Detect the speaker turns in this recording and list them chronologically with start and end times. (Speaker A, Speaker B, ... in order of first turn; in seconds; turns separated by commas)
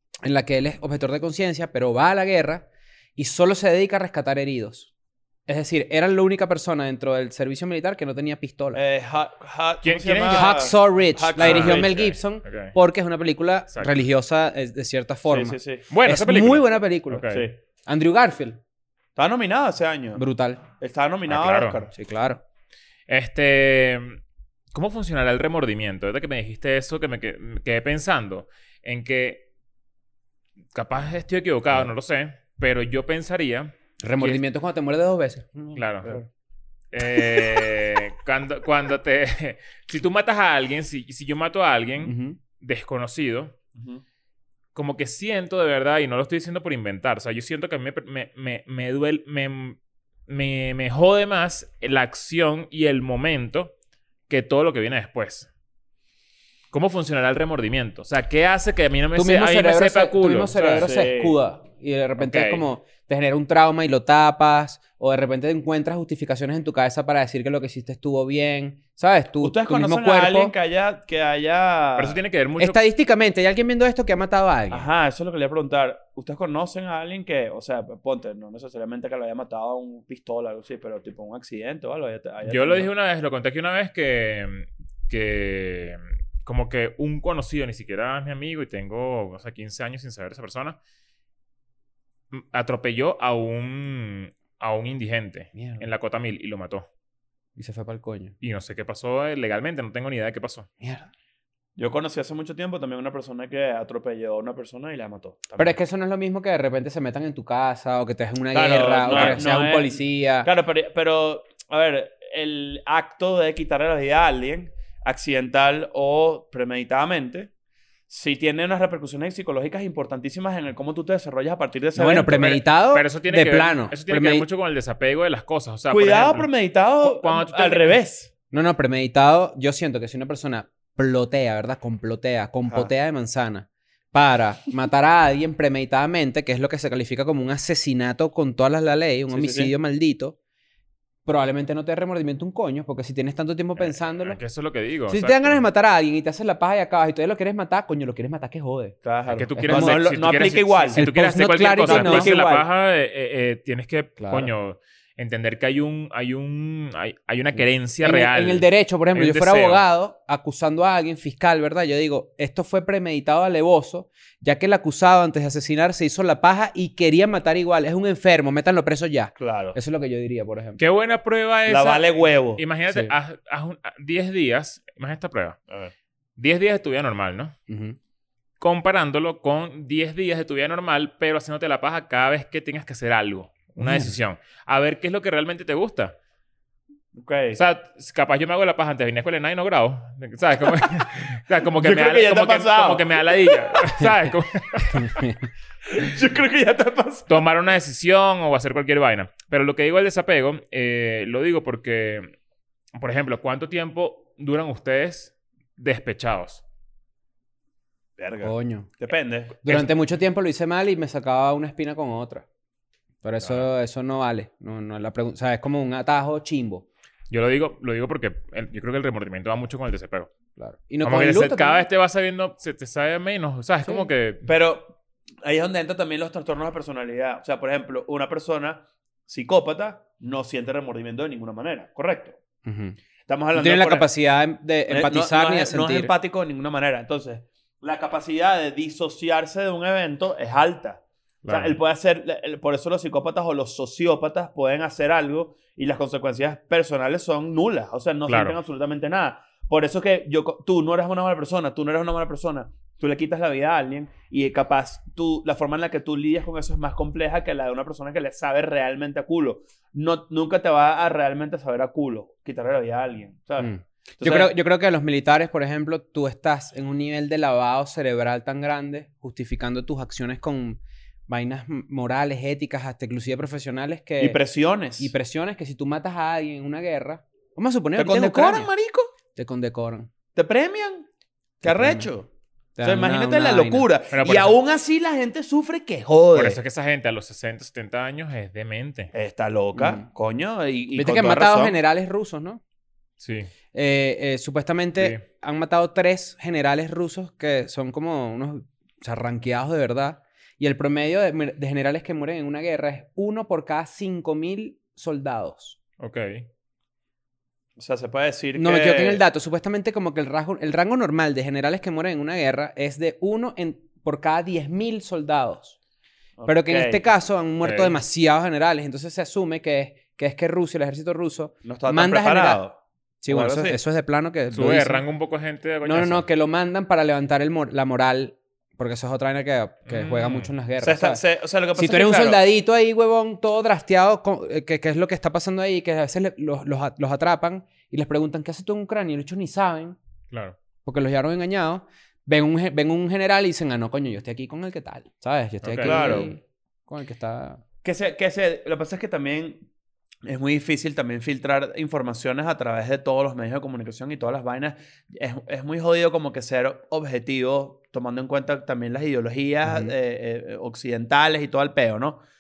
Speaker A: 0.2-4.9, Speaker A: 5.5-8.8, Speaker B: 8.7-11.9, Speaker C: 9.8-10.7, Speaker A: 10.3-17.3, Speaker C: 11.4-12.8, Speaker B: 15.3-15.8, Speaker C: 15.9-17.5, Speaker B: 17.3-17.6, Speaker A: 17.9-18.6, Speaker B: 19.2-20.2, Speaker A: 20.2-20.6, Speaker B: 20.8-21.9, Speaker C: 21.3-21.9, Speaker A: 21.9-22.4, Speaker C: 23.1-24.2, Speaker C: 24.7-29.5, Speaker C: 30.8-34.4, Speaker A: 34.0-35.8, Speaker C: 35.8-36.2, Speaker C: 36.9-43.5, Speaker A: 42.0-42.4, Speaker B: 43.8-44.0, Speaker C: 44.8-49.8, Speaker C: 50.3-53.7, Speaker C: 54.3-55.5, Speaker C: 56.7-60.9, Speaker A: 59.2-70.5, Speaker B: 60.6-61.4, Speaker C: 62.2-62.7, Speaker B: 69.4-72.2, Speaker C: 72.0-72.8, Speaker A: 72.6-74.9, Speaker B: 74.7-82.9, Speaker C: 82.5-90.8, Speaker C: 92.3-96.9, Speaker A: 95.5-95.9, Speaker A: 97.6-98.3, Speaker C: 98.4-100.7, Speaker A: 100.8-101.1, Speaker B: 101.8-105.8, Speaker A: 105.6-110.5, Speaker B: 108.5-117.5, Speaker C: 109.1-109.4, Speaker B: 118.1-122.6, Speaker A: 122.0-124.5, Speaker C: 122.9-126.5, Speaker B: 125.9-128.3, Speaker C: 127.0-128.0, Speaker A: 128.5-140.4, Speaker B: 139.3-139.7, Speaker A: 141.3-144.4, Speaker C: 143.8-145.6, Speaker A: 145.1-149.0, Speaker B: 149.0-151.1, Speaker C: 149.3-159.8, Speaker A: 149.6-150.0, Speaker A: 151.0-152.3, Speaker B: 151.8-152.7, Speaker A: 154.2-154.5, Speaker A: 158.0-170.8, Speaker B: 169.4-169.8, Speaker C: 170.8-175.6, Speaker B: 171.7-172.6, Speaker C: 176.4-177.6, Speaker A: 177.7-178.0, Speaker C: 178.6-186.2, Speaker A: 183.8-184.2, Speaker B: 187.1-187.6, Speaker C: 187.6-195.2, Speaker B: 190.8-191.1, Speaker B: 191.7-194.0, Speaker A: 194.9-195.5, Speaker B: 195.9-197.3, Speaker C: 197.3-202.3, Speaker C: 203.0-206.6, Speaker B: 208.2-209.6, Speaker A: 208.4-208.9, Speaker A: 209.6-212.4, Speaker A: 213.2-216.9, Speaker C: 217.3-220.3, Speaker A: 220.6-221.8, Speaker C: 221.0-224.5, Speaker B: 224.4-232.4, Speaker A: 232.7-233.0, Speaker B: 233.3-234.1, Speaker A: 233.5-236.1, Speaker B: 234.9-264.5, Speaker C: 241.4-241.8, Speaker C: 248.3-248.6, Speaker A: 263.6-274.4, Speaker B: 274.2-275.1, Speaker A: 275.0-278.7, Speaker B: 278.0-279.1, Speaker A: 279.4-280.1, Speaker B: 280.4-281.1, Speaker B: 281.6-282.3, Speaker A: 281.6-282.1, Speaker A: 282.8-283.9, Speaker B: 282.8-286.6, Speaker C: 284.1-284.5, Speaker C: 286.3-289.1, Speaker B: 289.1-291.8, Speaker A: 289.8-290.1, Speaker A: 291.0-292.6, Speaker C: 293.2-293.5, Speaker A: 293.7-305.8, Speaker C: 306.0-306.5, Speaker B: 307.8-309.2, Speaker A: 308.6-315.8, Speaker B: 316.4-317.1, Speaker A: 316.5-322.6, Speaker C: 317.6-318.0, Speaker B: 321.6-323.8, Speaker A: 323.2-325.0, Speaker C: 324.5-326.2, Speaker A: 325.8-331.2, Speaker C: 329.9-330.5, Speaker B: 330.8-332.5, Speaker A: 331.8-340.0, Speaker C: 340.3-340.6, Speaker A: 340.9-347.6, Speaker C: 345.6-346.3, Speaker B: 345.8-346.3, Speaker B: 347.8-349.6, Speaker B: 350.2-362.2, Speaker A: 359.7-359.9